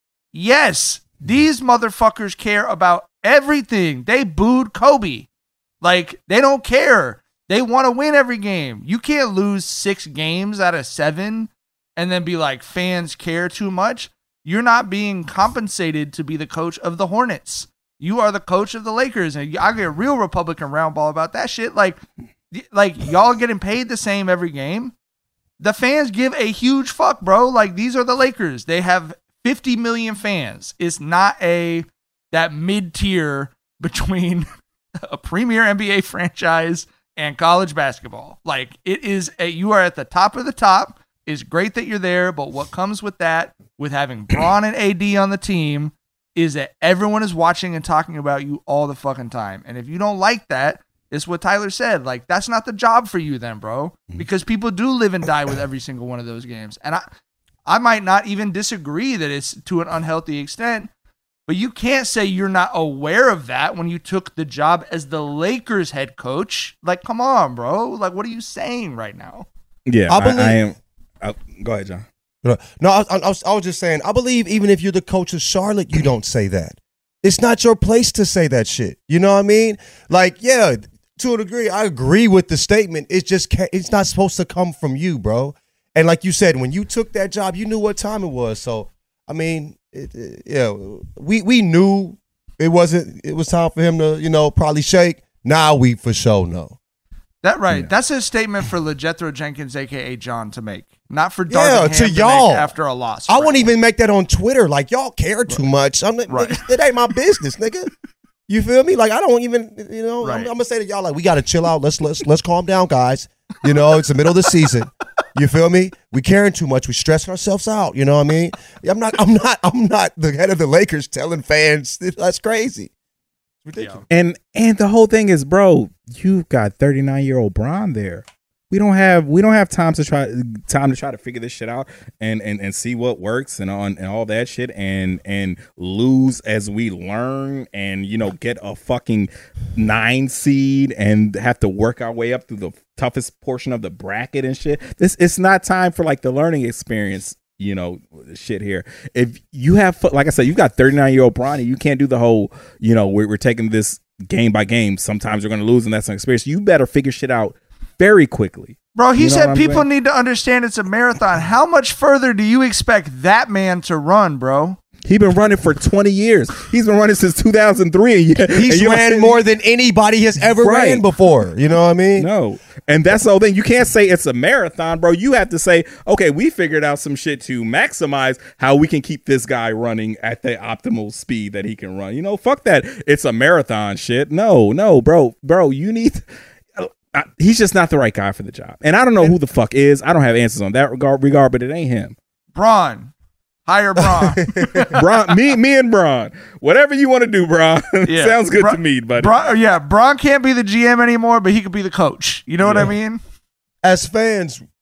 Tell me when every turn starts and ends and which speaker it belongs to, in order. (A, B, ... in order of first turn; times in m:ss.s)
0:00.3-0:05.3 A
0:05.8-0:22.0 A
0:22.5-0:24.9 A
0:25.6-0:34.5 A
0:35.0-0:57.0 A
0:57.7-1:00.9 A
1:01.5-1:09.5 A
1:09.9-1:12.0 B
1:10.1-1:10.6 C
1:12.4-1:36.8 C
1:37.4-1:43.7 A
1:41.5-1:42.7 C
1:43.3-1:47.9 C
1:46.3-1:46.6 A
1:48.5-2:02.9 C
1:50.2-1:50.5 A
2:03.6-2:04.0 C
2:03.8-2:04.0 A
2:04.1-2:39.9 B
2:39.0-2:44.8 A
2:45.0-2:49.4 B
2:48.5-2:52.3 C
2:50.6-2:51.1 B
2:52.2-3:06.2 B
3:06.8-3:12.2 B
3:12.6-3:13.1 A
3:13.7-3:15.0 A
3:14.4-3:15.0 C
3:14.9-3:19.3 B
3:18.1-3:23.2 A
3:22.6-3:22.9 B
3:23.8-3:24.6 C